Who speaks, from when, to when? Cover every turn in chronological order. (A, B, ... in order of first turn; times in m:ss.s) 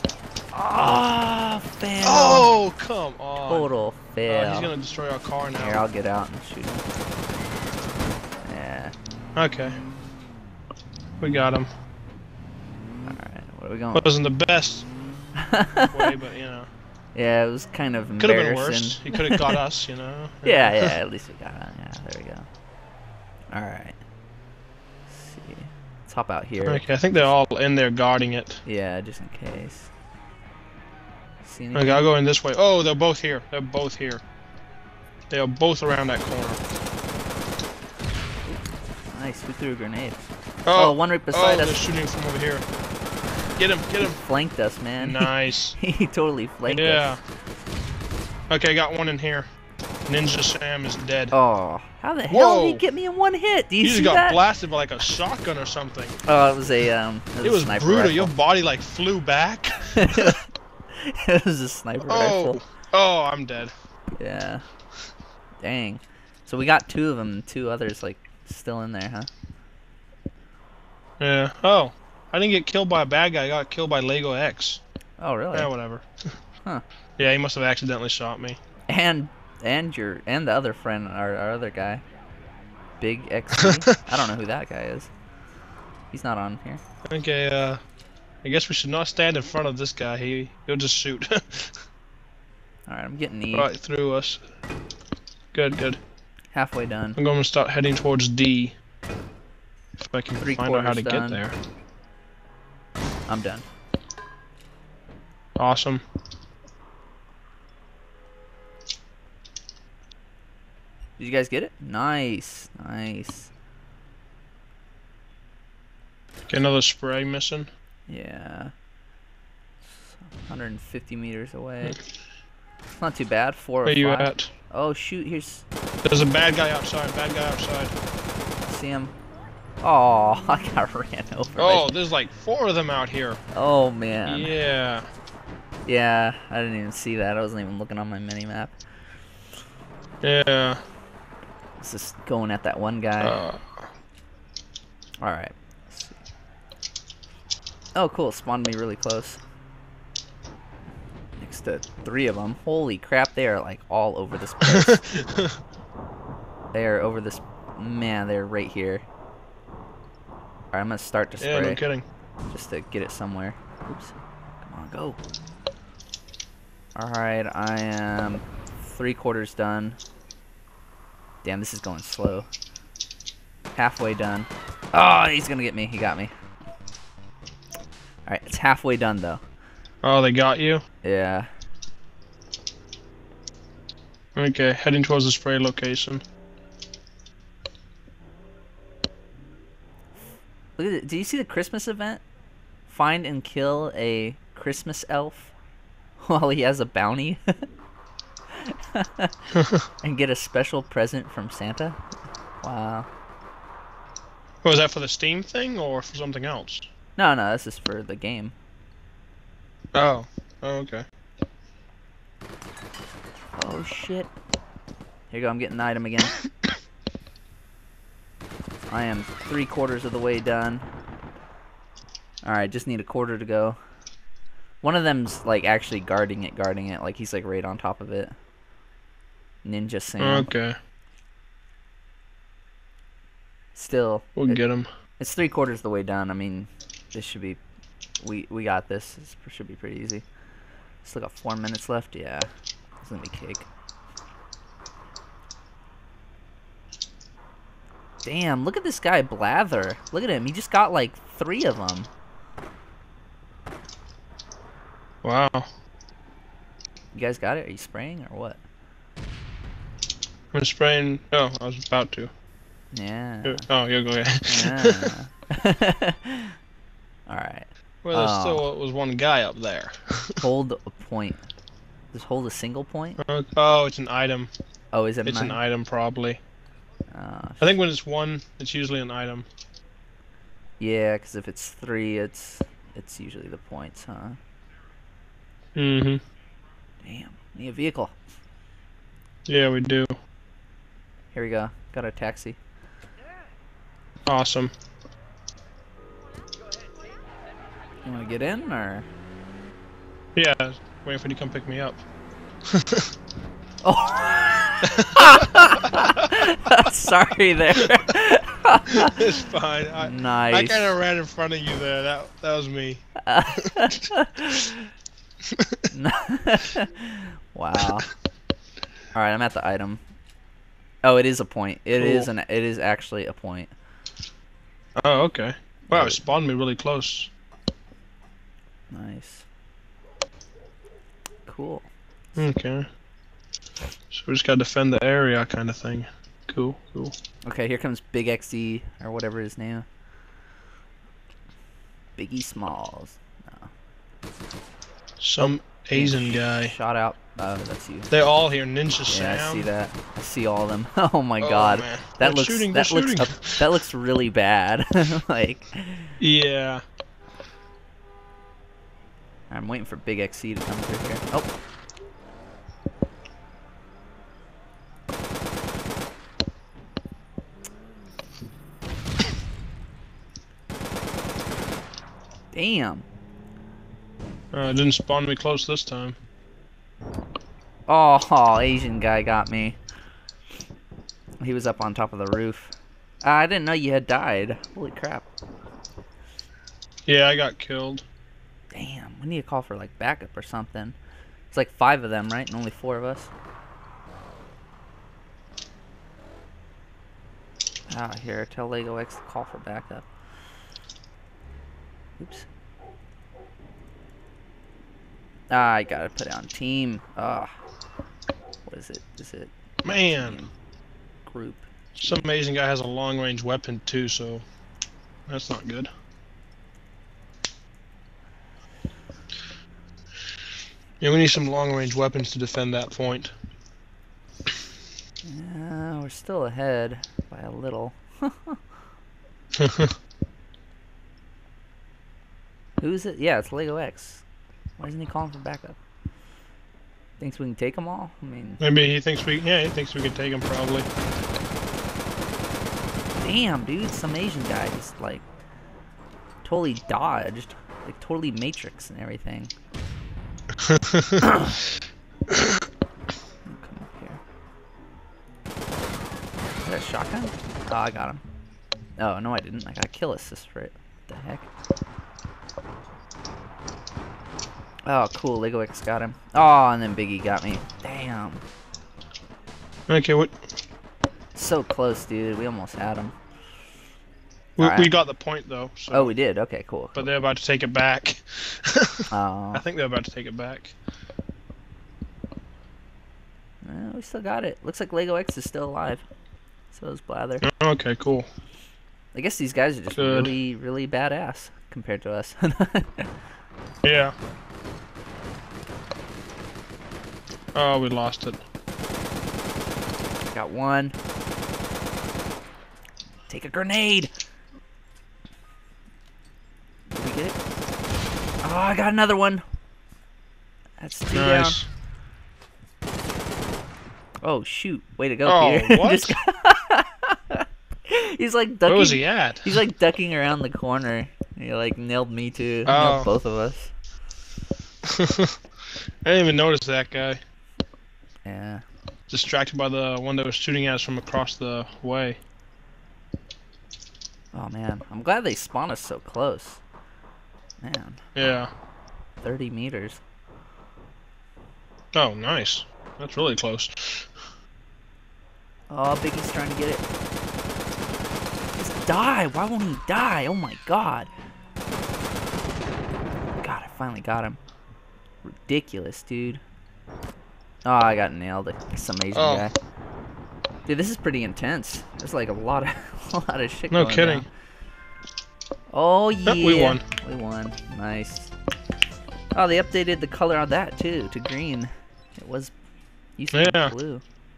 0:00.5-0:02.5 A
0:02.0-0:03.7 B
0:03.5-0:04.7 A
0:04.2-0:05.8 B
0:05.6-0:06.8 A
0:08.4-0:08.9 A
0:09.4-0:09.8 B
0:11.2-0:11.7 B
0:13.1-0:14.1 A
0:13.9-0:14.9 B
0:15.4-0:15.9 A
0:15.9-0:16.7 B
0:17.2-0:19.6 A
0:18.2-0:21.0 B
0:20.4-0:22.5 A
0:23.5-0:24.0 A
0:25.1-0:26.9 A
0:26.7-0:28.6 B
0:28.6-0:29.9 A
0:31.4-0:32.0 A
0:31.7-0:34.2 B
0:35.3-0:36.6 B
0:39.1-0:41.8 A
0:40.7-0:42.6 B
0:43.6-0:44.2 B
0:44.0-0:47.2 A
0:45.0-0:45.8 B
0:46.7-0:47.2 B
0:48.5-0:49.5 B
0:50.1-0:51.4 B
0:51.3-0:54.4 A
0:52.3-0:52.8 B
0:53.8-0:56.2 B
0:56.3-0:58.3 A
0:57.4-1:00.4 B
0:59.9-1:00.4 A
1:00.9-1:02.6 A
1:02.0-1:03.7 B
1:04.2-1:04.6 A
1:05.6-1:09.3 A
1:11.2-1:14.8 B
1:15.2-1:15.7 A
1:15.5-1:16.1 B
1:17.2-1:18.6 B
1:18.9-1:22.0 A
1:23.0-1:25.1 A
1:23.6-1:23.9 B
1:26.1-1:26.8 A
1:27.0-1:27.8 B
1:28.4-1:31.8 B
1:32.9-1:33.7 A
1:33.5-1:34.4 B
1:35.5-1:36.0 B
1:36.5-1:37.2 A
1:37.2-1:38.8 B
1:40.0-1:41.6 B
1:40.4-1:41.4 A
1:43.3-1:43.7 A
1:45.6-1:46.0 B
1:51.2-1:53.5 A
1:56.5-1:57.7 B
1:58.1-1:58.7 A
1:59.9-2:02.0 A
2:03.0-2:05.6 A
2:03.8-2:04.5 B
2:06.0-2:07.9 B
2:08.7-2:09.2 A
2:09.8-2:11.9 A
2:11.6-2:13.4 B
2:13.5-2:14.5 A
2:14.2-2:15.1 B
2:15.9-2:18.8 A
2:20.2-2:20.8 B
2:21.8-2:23.4 A
2:23.2-2:23.9 B
2:25.2-2:26.2 A
2:28.0-2:29.4 A
2:31.4-2:35.0 A
2:34.7-2:35.6 B
2:36.7-2:39.0 A
2:40.7-2:41.8 A
2:41.4-2:42.1 B
2:42.5-2:45.2 A
2:47.0-2:50.0 A
2:51.4-2:52.5 A
2:53.8-2:56.3 A
2:58.3-2:59.4 A
3:00.0-3:00.8 B
3:01.0-3:01.5 A
3:04.4-3:06.2 B
3:10.8-3:12.2 A
3:12.9-3:15.5 A
3:16.2-3:17.4 A
3:18.6-3:19.3 A
3:19.5-3:19.8 B
3:20.0-3:22.0 A
3:22.6-3:23.1 A
3:24.6-3:26.9 B
3:27.2-3:28.5 A
3:30.0-3:31.0 B
3:33.6-3:34.3 A
3:35.3-3:36.4 A
3:38.9-3:40.9 A
3:42.4-3:43.8 A
3:44.8-3:48.3 A
3:49.6-3:50.5 A
3:50.2-3:50.8 B
3:53.8-3:54.6 A
3:54.4-3:54.9 B
3:55.2-3:57.6 A
3:58.2-4:00.2 A
4:01.0-4:02.5 A
4:03.0-4:03.7 A
4:08.2-4:12.1 A
4:15.2-4:15.7 B
4:17.1-4:18.6 A
4:20.5-4:22.3 B
4:22.9-4:23.6 A
4:23.4-4:25.1 B
4:24.5-4:26.6 A
4:27.3-4:28.7 A
4:28.0-4:30.4 B
4:30.4-4:31.4 A
4:32.1-4:33.2 A
4:33.2-4:34.5 B
4:34.9-4:35.6 A
4:35.2-4:36.4 B
4:37.1-4:37.7 A
4:37.6-4:39.5 B
4:40.8-4:44.4 A
4:45.8-4:46.2 B
4:47.0-4:48.1 A
4:49.5-4:50.1 B
4:51.3-4:52.6 A
4:54.3-4:54.7 B
4:58.0-4:59.1 A
5:00.4-5:02.0 B
5:02.7-5:03.0 B
5:03.8-5:09.2 A
5:09.0-5:13.0 B
5:10.0-5:11.0 A
5:13.2-5:14.9 A
5:13.6-5:13.8 B
5:15.9-5:18.1 A
5:19.1-5:20.0 A
5:21.0-5:23.7 A
5:22.0-5:22.3 B
5:25.0-5:27.3 B
5:25.9-5:26.2 A
5:28.9-5:29.5 A
5:31.5-5:32.5 A
5:32.4-5:32.9 B
5:34.1-5:37.2 B
5:37.5-5:39.9 A
5:42.2-5:43.7 A
5:45.2-5:46.8 B
5:45.4-5:48.1 A
5:48.1-5:49.7 B
5:49.1-5:56.1 A
5:51.4-5:53.7 B
5:56.2-5:56.8 B
5:59.5-6:01.5 A
6:12.5-6:13.1 A
6:14.5-6:16.2 B
6:17.9-6:19.8 A
6:21.4-6:25.3 A
6:27.1-6:28.0 B
6:28.7-6:31.0 A
6:31.5-6:33.3 A
6:37.9-6:40.1 A
6:42.2-6:42.5 A
6:45.5-6:47.5 A
6:48.7-6:50.5 A
6:49.8-6:50.4 B
6:51.2-6:51.7 A
6:52.0-6:54.4 B
6:55.3-6:55.9 B
7:01.0-7:03.3 B
7:05.2-7:08.6 A
7:09.6-7:10.0 B
7:12.8-7:14.2 A
7:14.8-7:15.8 A
7:17.2-7:18.6 A
7:18.6-7:20.9 B
7:23.2-7:25.2 A
7:26.4-7:29.5 A
7:30.7-7:31.3 B
7:31.2-7:31.6 A
7:33.5-7:34.2 A
7:36.6-7:38.2 A
7:39.0-7:41.5 A
7:44.9-7:48.4 A
7:49.9-7:50.4 B
7:51.4-7:53.1 A
7:54.6-7:56.1 B
7:54.6-7:54.9 A
7:55.9-7:57.1 A
7:57.0-8:00.8 B
7:59.1-7:59.6 A
8:03.6-8:06.0 A
8:06.7-8:07.4 A
8:07.4-8:08.3 B
8:09.1-8:13.1 A
8:10.0-8:10.3 B
8:13.8-8:14.2 B
8:17.5-8:18.4 B
8:20.3-8:21.0 A
8:23.3-8:24.1 A
8:26.9-8:27.4 A
8:28.4-8:29.4 A
8:30.8-8:31.6 A
8:31.1-8:31.7 B
8:34.2-8:43.7 A
8:35.2-8:36.2 B
8:38.7-8:39.6 B
8:42.7-8:43.1 B
8:44.9-8:45.4 B
8:46.0-8:47.2 B
8:48.3-8:48.6 A
8:49.1-8:52.2 B
8:54.3-8:56.6 A
8:57.6-8:58.0 A
8:58.2-8:58.5 B
8:59.2-9:00.0 A
9:01.9-9:04.1 B
9:05.7-9:06.9 A
9:08.6-9:11.1 A
9:13.4-9:14.4 A
9:15.2-9:16.4 A
9:17.6-9:19.5 A
9:19.1-9:19.5 B
9:20.7-9:24.3 A
9:23.7-9:24.2 B
9:25.7-9:28.3 A
9:26.3-9:26.8 B
9:29.3-9:32.5 A
9:33.2-9:34.0 A
9:33.3-9:33.7 B